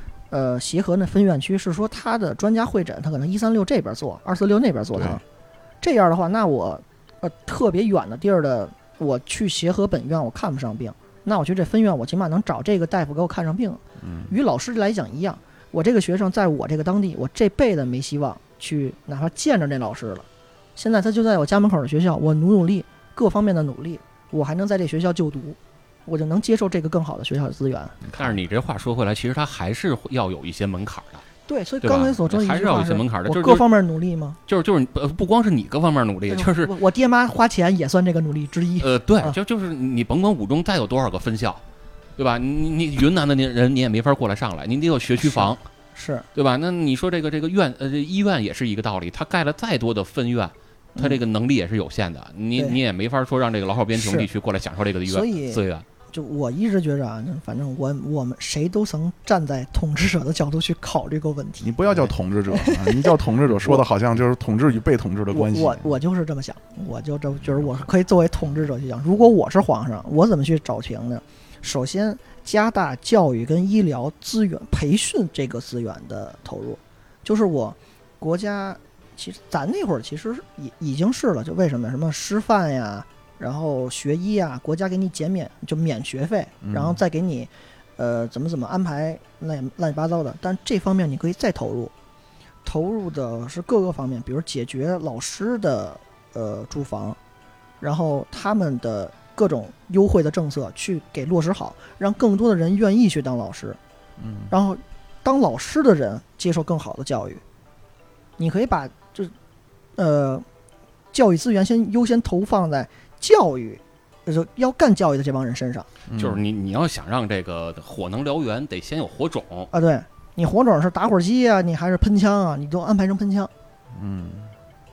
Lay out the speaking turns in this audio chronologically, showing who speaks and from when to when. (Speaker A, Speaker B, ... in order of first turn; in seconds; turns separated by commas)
Speaker A: 0.3-5.2, Speaker B: 4.9-5.2, Speaker A: 5.8-28.0, Speaker B: 14.0-14.3, Speaker B: 28.0-28.4, Speaker C: 28.2-31.2, Speaker A: 31.5-34.4, Speaker C: 31.8-33.7, Speaker C: 34.5-36.7, Speaker A: 36.3-39.4, Speaker C: 38.8-41.6, Speaker C: 42.2-45.6, Speaker A: 45.2-46.3, Speaker C: 46.4-55.9, Speaker A: 51.0-51.2, Speaker A: 54.0-54.3, Speaker A: 55.1-63.8, Speaker B: 61.6-65.9, Speaker A: 65.3-91.9, Speaker B: 86.6-87.0, Speaker A: 92.7-97.2, Speaker A: 97.8-103.8, Speaker B: 104.2-104.5, Speaker A: 104.5-107.4, Speaker A: 108.4-109.3, Speaker A: 110.0-110.5, Speaker A: 111.1-115.9, Speaker B: 116.1-116.4, Speaker C: 116.2-119.7, Speaker A: 119.7-123.5, Speaker B: 124.0-124.5